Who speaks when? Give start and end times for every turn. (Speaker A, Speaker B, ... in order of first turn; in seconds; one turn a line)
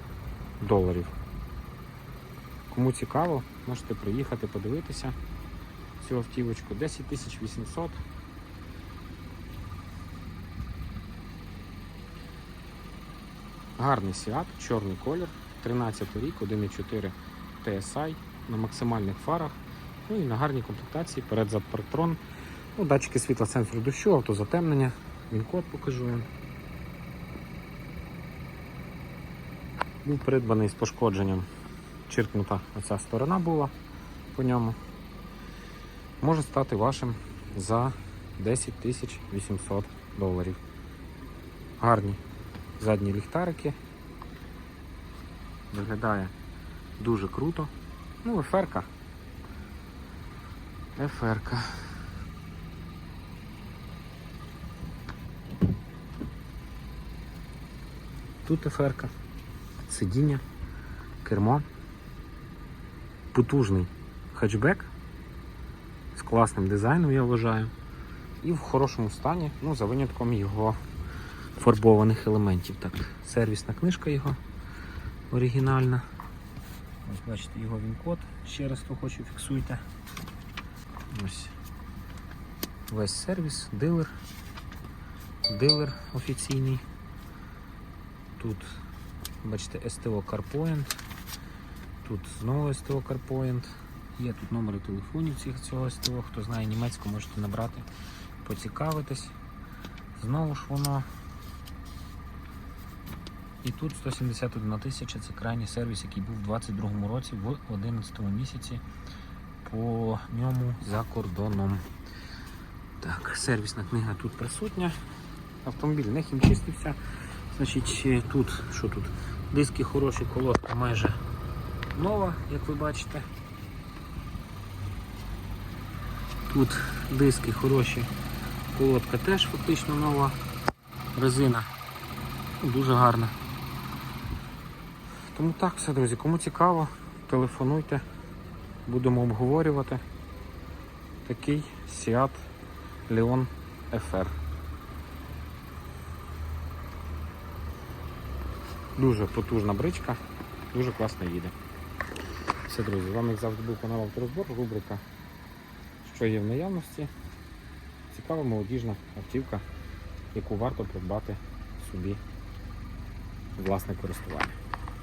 Speaker A: 0.6-1.1
Speaker A: 2.7-5.2
Speaker A: 6.0-8.0
Speaker A: 13.8-19.6
Speaker A: 20.1-22.2
Speaker A: 22.8-26.3
Speaker A: 30.0-31.5
Speaker A: 32.1-33.7
Speaker A: 34.3-34.8
Speaker A: 36.2-40.6
Speaker A: 41.8-42.2
Speaker A: 42.8-43.8
Speaker A: 45.7-46.3
Speaker A: 47.0-47.7
Speaker A: 48.2-48.9
Speaker A: 51.0-51.8
Speaker A: 58.5-59.1
Speaker A: 59.9-60.4
Speaker A: 61.2-61.6
Speaker A: 63.3-64.9
Speaker A: 66.2-67.7
Speaker A: 68.4-70.8
Speaker A: 71.6-74.4
Speaker A: 75.3-76.0
Speaker A: 77.0-79.8
Speaker A: 81.1-81.5
Speaker A: 82.9-84.1
Speaker A: 85.5-86.8
Speaker A: 88.4-88.8
Speaker A: 89.4-91.0
Speaker A: 92.0-97.9
Speaker A: 98.4-99.3
Speaker A: 100.2-101.1
Speaker A: 103.6-108.8
Speaker A: 109.6-111.8
Speaker A: 113.0-115.0
Speaker A: 115.6-117.0
Speaker A: 117.5-121.2
Speaker A: 121.9-123.3
Speaker A: 126.5-128.1
Speaker A: 128.7-130.4
Speaker A: 131.2-131.7
Speaker A: 132.6-133.4
Speaker A: 135.3-138.0
Speaker A: 138.9-140.0
Speaker A: 141.2-142.5
Speaker A: 143.1-144.4
Speaker A: 149.0-150.2
Speaker A: 150.7-151.5
Speaker A: 152.7-155.0
Speaker A: 156.0-157.1
Speaker A: 158.1-159.6
Speaker A: 160.3-162.2
Speaker A: 163.6-164.6